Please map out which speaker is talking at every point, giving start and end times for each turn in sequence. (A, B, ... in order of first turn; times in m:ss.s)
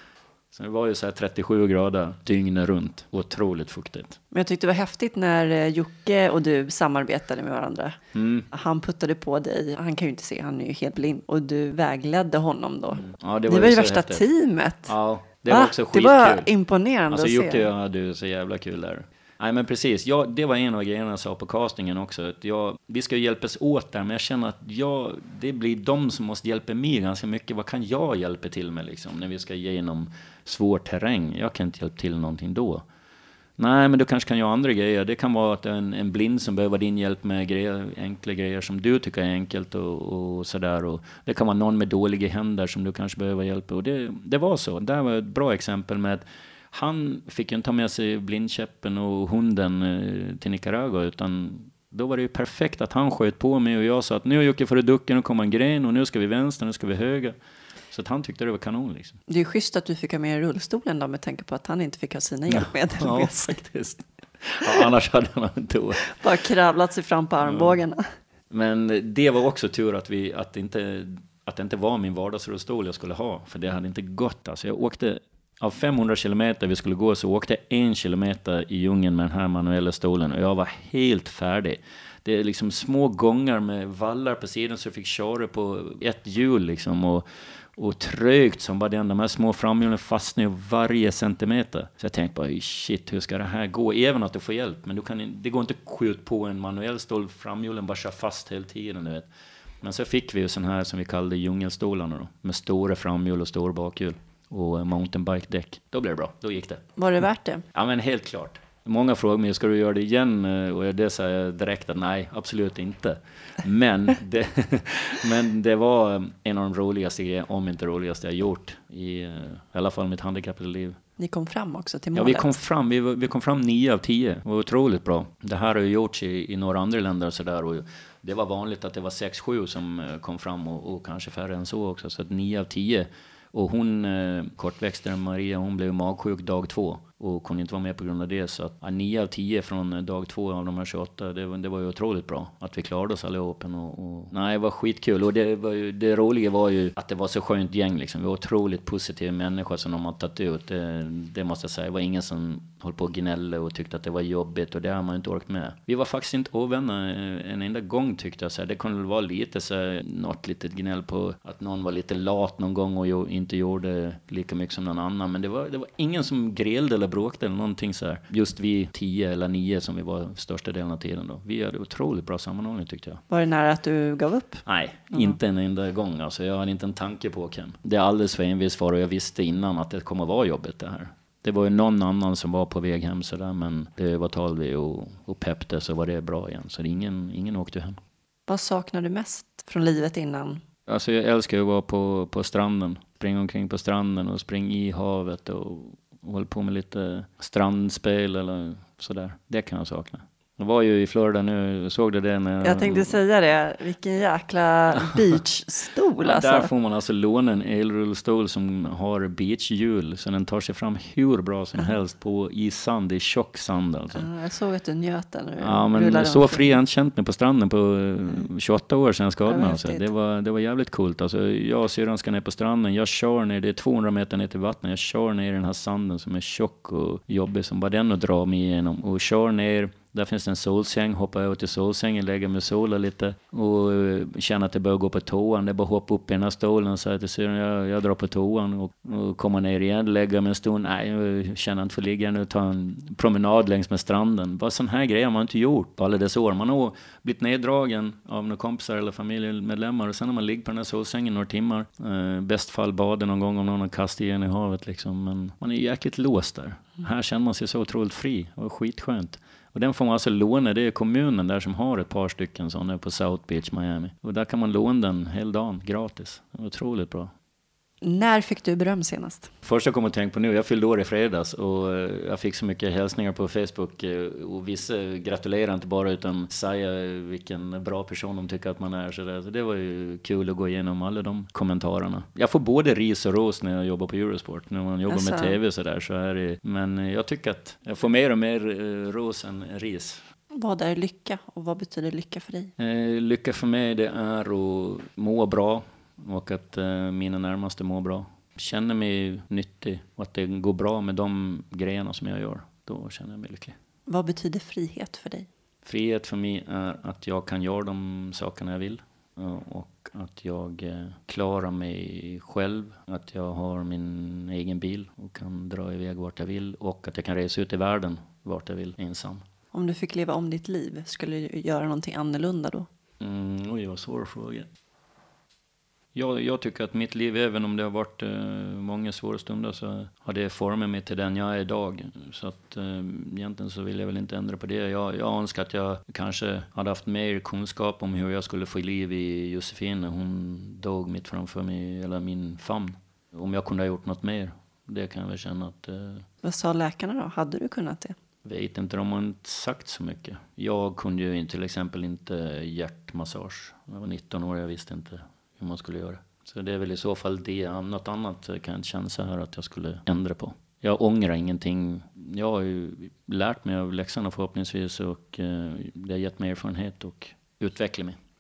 0:00.5-0:04.2 A
0:04.3-0:08.0 B
0:08.1-0:08.5 A
0:08.5-0:14.9 B
0:13.0-0:14.3 A
0:14.9-0:16.5 A
0:15.5-0:17.7 B
0:17.1-0:32.8 A
0:33.6-0:57.4 A
0:57.9-0:59.2 A
0:59.3-1:03.6 B
1:02.5-1:06.2 A
1:06.1-1:08.1 B
1:07.4-1:07.8 A
1:08.5-1:27.2 A
1:27.8-1:39.3 A
1:39.8-1:46.8 A
1:47.0-1:47.7 B
1:47.7-2:01.0 A
2:01.2-2:02.5 B
2:02.2-2:53.2 A
2:53.3-2:55.4 B
2:54.7-3:08.0 A
3:08.5-3:10.6 B
3:10.9-3:23.2 A
3:22.6-3:26.7 B
3:26.2-3:34.3 A
3:34.1-3:36.8 B
3:35.6-4:27.3 A
3:39.5-3:40.1 B
4:28.0-4:29.5 B
4:29.6-4:50.2 A
4:45.1-4:45.6 B
4:50.5-4:52.7 B
4:52.8-5:03.8 A
5:04.1-5:05.5 B
5:05.8-5:19.4 A
5:19.7-5:22.9 B
5:23.2-5:24.7 A
5:26.2-5:46.3 A
5:46.4-5:48.2 B
5:48.4-6:08.2 A